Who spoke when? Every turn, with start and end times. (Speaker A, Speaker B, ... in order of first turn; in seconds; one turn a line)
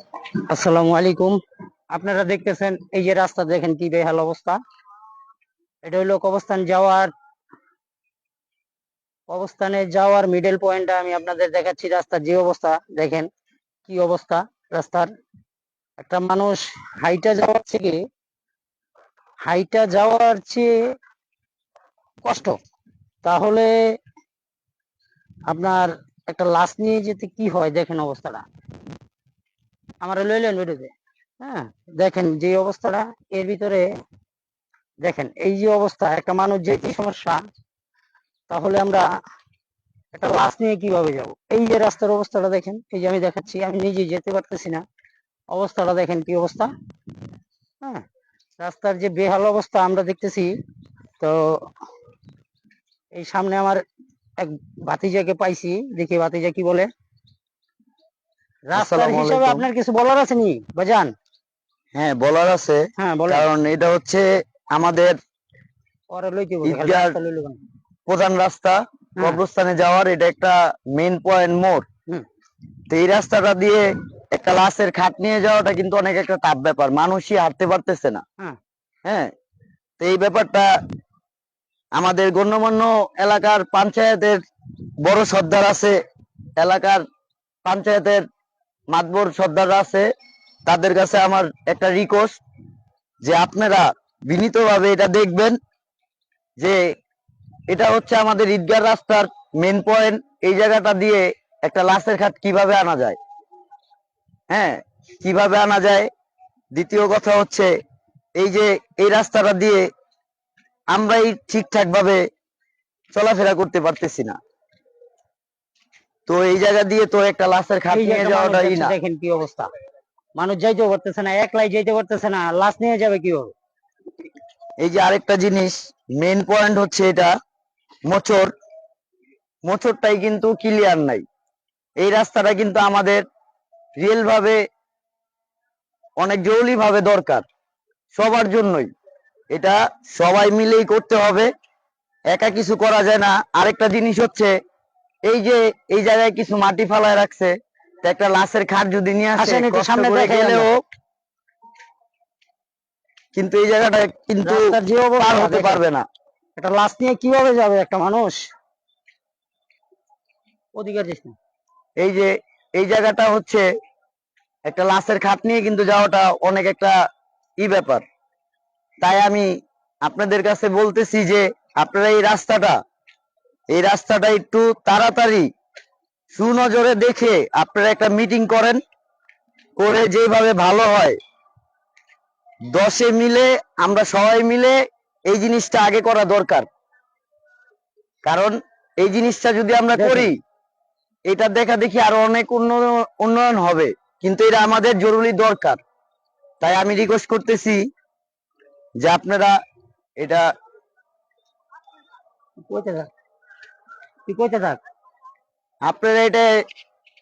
Speaker A: 0.5-1.4
Speaker A: 1.9-4.6
Speaker A: 5.8-7.1
Speaker A: 9.3-13.3
Speaker A: 13.9-15.1
Speaker A: 16.0-18.0
Speaker A: 19.4-20.8
Speaker A: 22.2-22.6
Speaker A: 23.2-24.0
Speaker A: 25.5-28.4
Speaker A: 30.0-33.9
Speaker A: 35.0-37.4
Speaker A: 38.5-39.2
Speaker A: 40.1-44.8
Speaker A: 45.5-46.7
Speaker A: 48.6-50.6
Speaker A: 51.2-51.7
Speaker A: 53.1-53.8
Speaker A: 54.4-56.9
Speaker A: 58.7-61.1
Speaker B: 58.7-59.7
Speaker B: 62.0-65.2
Speaker A: 63.0-63.5
Speaker A: 66.1-67.6
Speaker B: 66.7-67.2
Speaker B: 68.1-71.8
Speaker B: 72.9-78.2
Speaker B: 80.0-80.7
Speaker B: 82.0-84.4
Speaker B: 85.0-86.0
Speaker B: 86.6-87.0
Speaker B: 87.6-88.2
Speaker B: 88.9-90.1
Speaker B: 90.7-92.4
Speaker B: 93.2-95.6
Speaker B: 97.7-103.2
Speaker B: 104.5-106.1
Speaker B: 106.7-107.7
Speaker B: 108.4-109.8
Speaker B: 110.9-112.2
Speaker B: 113.1-114.4
Speaker B: 116.3-119.0
Speaker A: 117.9-119.7
Speaker A: 120.4-123.5
Speaker B: 124.8-127.3
Speaker B: 128.1-128.5
Speaker B: 129.7-131.2
Speaker B: 132.0-133.2
Speaker B: 134.0-134.6
Speaker B: 136.2-137.5
Speaker B: 138.2-138.9
Speaker B: 139.5-141.5
Speaker B: 142.3-144.5
Speaker B: 145.3-150.8
Speaker A: 149.4-150.7
Speaker B: 153.3-154.7
Speaker A: 154.4-155.8
Speaker B: 155.2-156.0
Speaker A: 156.6-158.5
Speaker A: 160.8-161.4
Speaker B: 162.0-163.7
Speaker B: 164.7-166.9
Speaker B: 167.6-168.0
Speaker B: 169.0-169.5
Speaker B: 170.0-172.8
Speaker B: 173.7-175.5
Speaker B: 176.3-178.8
Speaker B: 179.8-181.2
Speaker B: 182.7-184.8
Speaker B: 185.3-186.7
Speaker B: 188.2-190.3
Speaker A: 189.9-190.3
Speaker B: 191.3-195.8
Speaker B: 196.6-197.8
Speaker B: 199.0-199.6
Speaker B: 200.2-200.5
Speaker A: 202.6-203.1
Speaker A: 204.3-204.8
Speaker B: 205.8-206.5